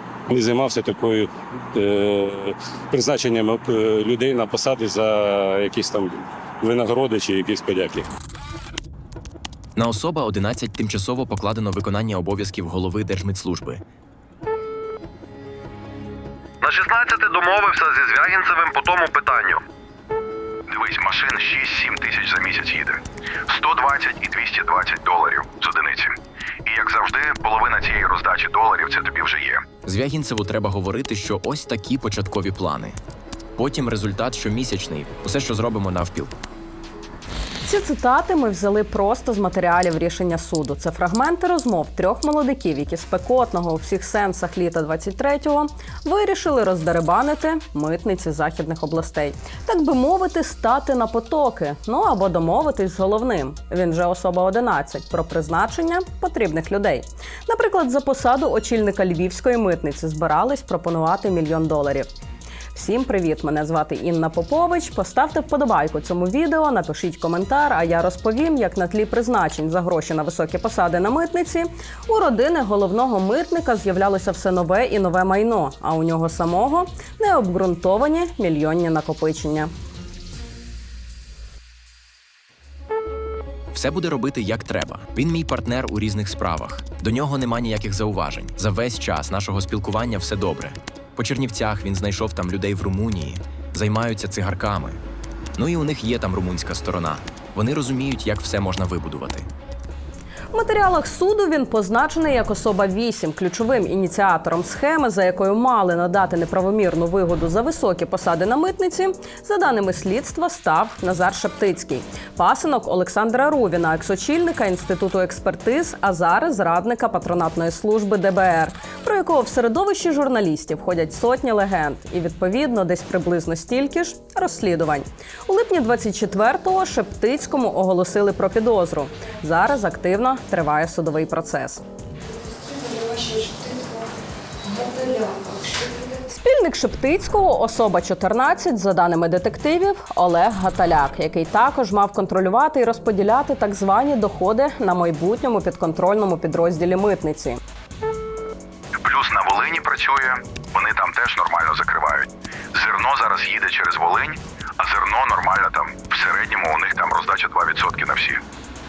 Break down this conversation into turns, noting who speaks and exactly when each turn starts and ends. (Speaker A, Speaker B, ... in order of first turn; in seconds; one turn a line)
Speaker A: 0.3-8.1
Speaker B: 9.8-13.8
Speaker C: 16.6-19.6
Speaker C: 20.7-29.6
Speaker B: 29.8-33.0
Speaker B: 33.6-36.3
Speaker D: 37.6-62.1
Speaker D: 62.7-79.7
Speaker B: 83.7-95.0
Speaker B: 95.5-99.5
Speaker D: 100.5-131.8
Speaker D: 133.1-133.7
Speaker D: 134.8-147.6
Speaker C: 149.0-158.4